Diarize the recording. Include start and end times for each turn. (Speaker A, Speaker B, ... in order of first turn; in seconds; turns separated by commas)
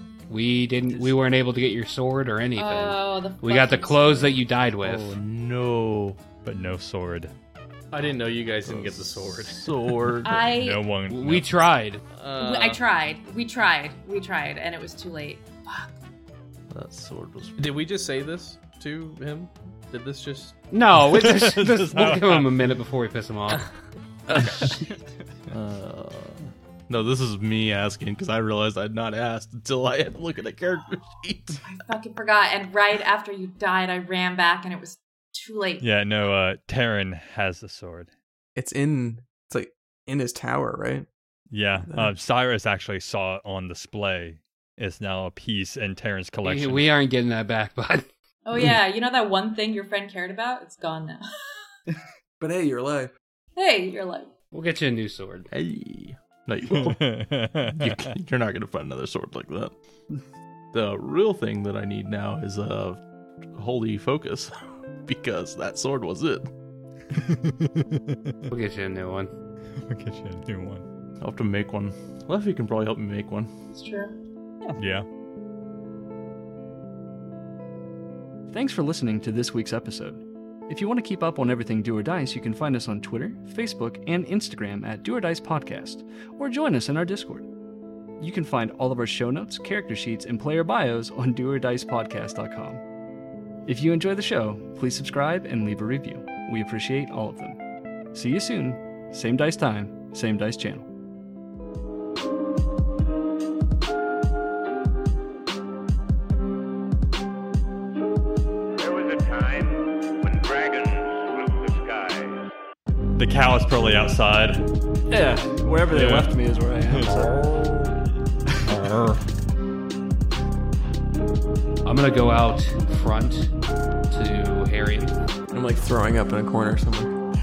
Speaker A: 0.3-5.2, Speaker B: 2.6-4.4, Speaker C: 4.8-6.2, Speaker D: 6.4-7.3, Speaker E: 7.9-9.8, Speaker C: 8.6-10.5, Speaker B: 10.2-10.8, Speaker D: 10.5-11.5, Speaker A: 11.1-12.0, Speaker E: 12.1-12.8, Speaker B: 12.4-16.0, Speaker C: 16.7-17.8, Speaker E: 17.6-20.6, Speaker A: 20.7-23.7, Speaker D: 21.0-22.5, Speaker E: 24.3-24.7, Speaker C: 24.4-24.7, Speaker C: 25.5-31.6, Speaker B: 31.6-35.9, Speaker D: 35.8-38.1, Speaker F: 38.6-41.1, Speaker D: 41.5-46.9, Speaker F: 41.8-42.1, Speaker A: 46.5-48.1, Speaker B: 48.5-51.2, Speaker F: 52.4-53.1, Speaker B: 53.6-54.3, Speaker A: 54.5-55.5, Speaker C: 55.5-59.8, Speaker D: 56.7-58.1, Speaker C: 60.7-66.5, Speaker D: 67.1-68.5, Speaker A: 68.5-69.3, Speaker D: 69.7-70.9, Speaker C: 71.2-73.5, Speaker B: 73.7-74.2, Speaker D: 74.8-75.1, Speaker G: 78.5-87.5, Speaker G: 88.2-92.8, Speaker G: 93.7-97.6, Speaker G: 98.1-100.9, Speaker H: 108.8-112.5, Speaker D: 113.1-114.7, Speaker G: 115.1-117.4, Speaker D: 115.9-116.3, Speaker D: 116.9-118.1, Speaker D: 118.6-119.2, Speaker A: 121.8-123.5, Speaker A: 124.1-125.2, Speaker F: 125.5-127.2